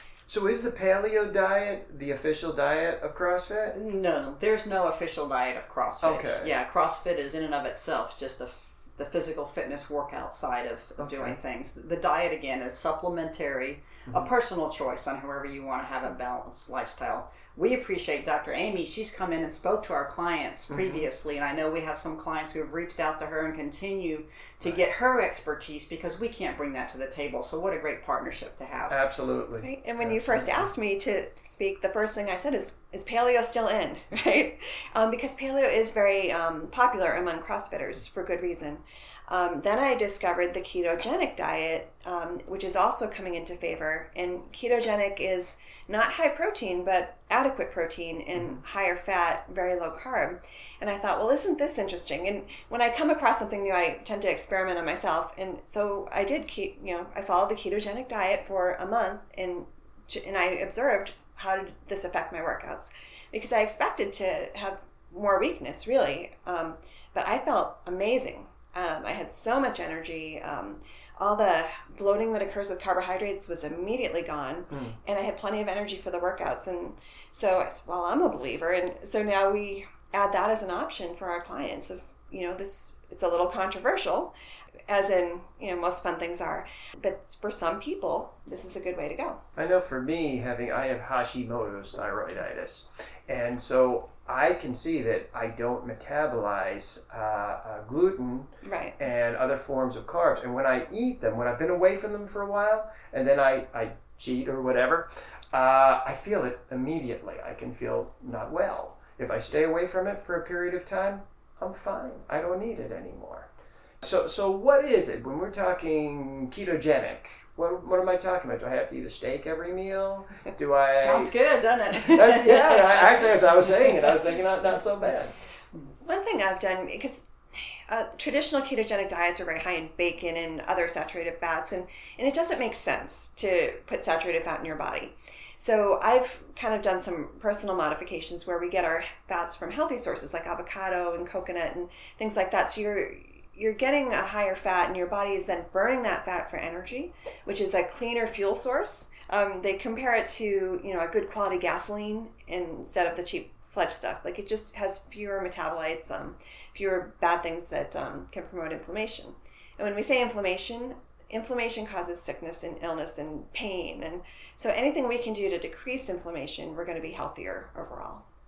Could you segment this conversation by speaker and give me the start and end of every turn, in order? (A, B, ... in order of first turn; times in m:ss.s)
0:00.3-0:03.8 A
0:03.7-0:29.0 B
0:06.0-0:06.5 A
0:11.0-0:11.4 A
0:20.7-0:21.1 A
0:28.9-0:30.7 A
0:29.6-1:24.3 C
0:48.3-0:48.6 A
1:14.7-1:15.0 A
1:24.9-1:29.4 C
1:29.5-1:53.5 A
1:38.6-1:39.0 C
1:54.0-2:01.3 A
2:00.9-2:03.3 B
2:01.9-2:05.3 A
2:06.0-2:48.2 C